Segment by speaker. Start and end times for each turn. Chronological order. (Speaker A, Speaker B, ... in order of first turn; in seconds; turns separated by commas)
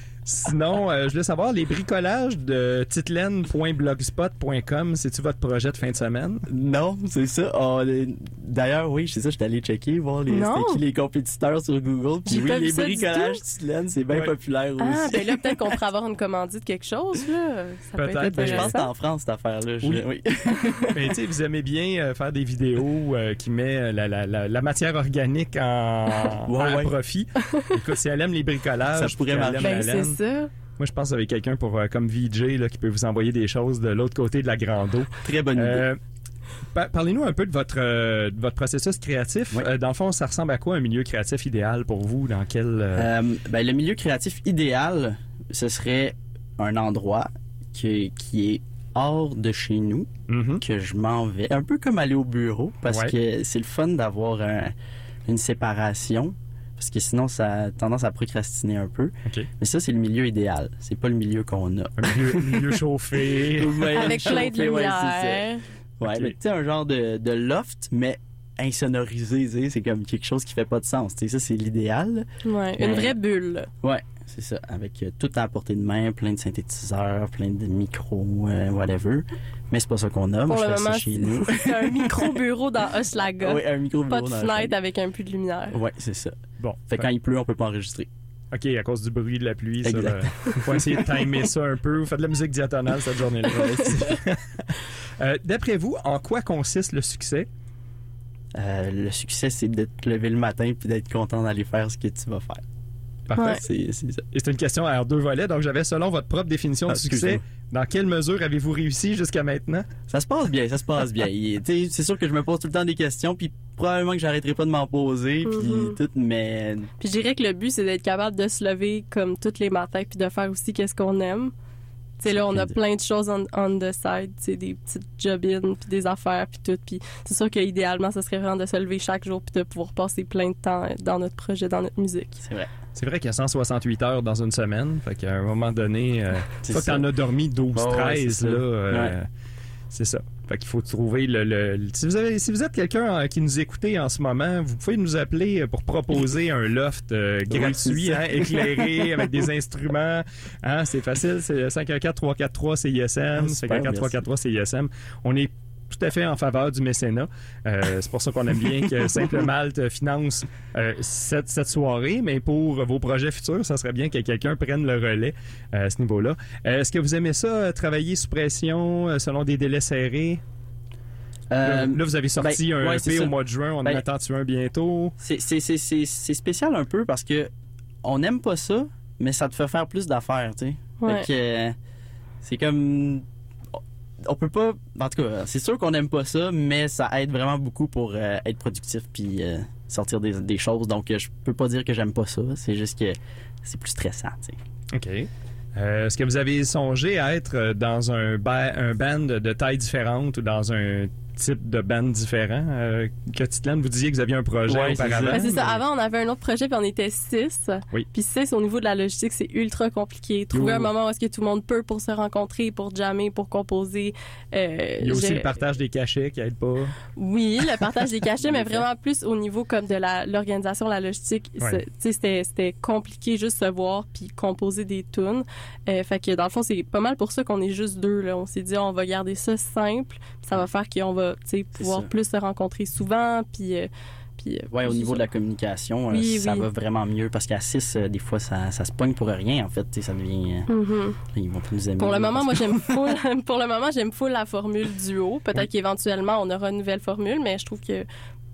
Speaker A: 0.2-6.5, Speaker B: 6.5-15.6, Speaker C: 10.3-10.8, Speaker C: 12.3-13.4, Speaker C: 14.8-18.9, Speaker A: 18.0-18.8, Speaker B: 18.3-20.9, Speaker A: 20.9-30.2, Speaker B: 26.5-26.9, Speaker B: 28.9-30.1, Speaker C: 29.6-30.5, Speaker A: 30.8-36.0, Speaker B: 35.2-35.8, Speaker A: 36.7-43.1, Speaker B: 42.9-54.7, Speaker A: 50.3-50.6, Speaker A: 52.9-53.1, Speaker B: 55.2-62.8, Speaker A: 62.0-64.6, Speaker B: 63.5-65.5, Speaker C: 64.0-65.6, Speaker B: 66.0-73.2, Speaker A: 66.0-66.4, Speaker C: 72.4-73.7, Speaker B: 73.8-82.3, Speaker C: 80.5-85.8, Speaker B: 83.4-84.7, Speaker B: 85.7-86.3, Speaker A: 86.6-87.1, Speaker B: 86.9-88.1, Speaker A: 88.5-97.5, Speaker B: 89.8-91.0, Speaker B: 98.5-102.6, Speaker A: 103.3-103.6, Speaker B: 103.4-104.2, Speaker A: 104.3-109.9, Speaker B: 106.9-107.4, Speaker B: 110.1-116.9, Speaker C: 115.5-116.0, Speaker C: 117.0-121.5, Speaker C: 122.2-132.4, Speaker B: 122.3-122.8, Speaker B: 132.4-132.7, Speaker A: 132.9-139.2, Speaker B: 136.6-137.1, Speaker B: 137.7-139.1, Speaker A: 139.9-170.4, Speaker B: 147.5-149.4, Speaker B: 153.3-154.2, Speaker B: 171.5-174.0, Speaker A: 171.6-175.1, Speaker B: 175.2-177.5, Speaker B: 178.0-181.8, Speaker C: 181.0-181.3, Speaker B: 182.4-194.6, Speaker A: 194.9-205.8, Speaker B: 204.7-205.4, Speaker C: 205.3-215.5, Speaker A: 210.5-210.9, Speaker A: 215.0-216.9, Speaker C: 217.2-235.2, Speaker B: 231.8-232.1, Speaker B: 234.7-240.7, Speaker C: 236.1-236.7, Speaker C: 240.7-241.2, Speaker B: 241.3-243.0, Speaker C: 242.0-248.1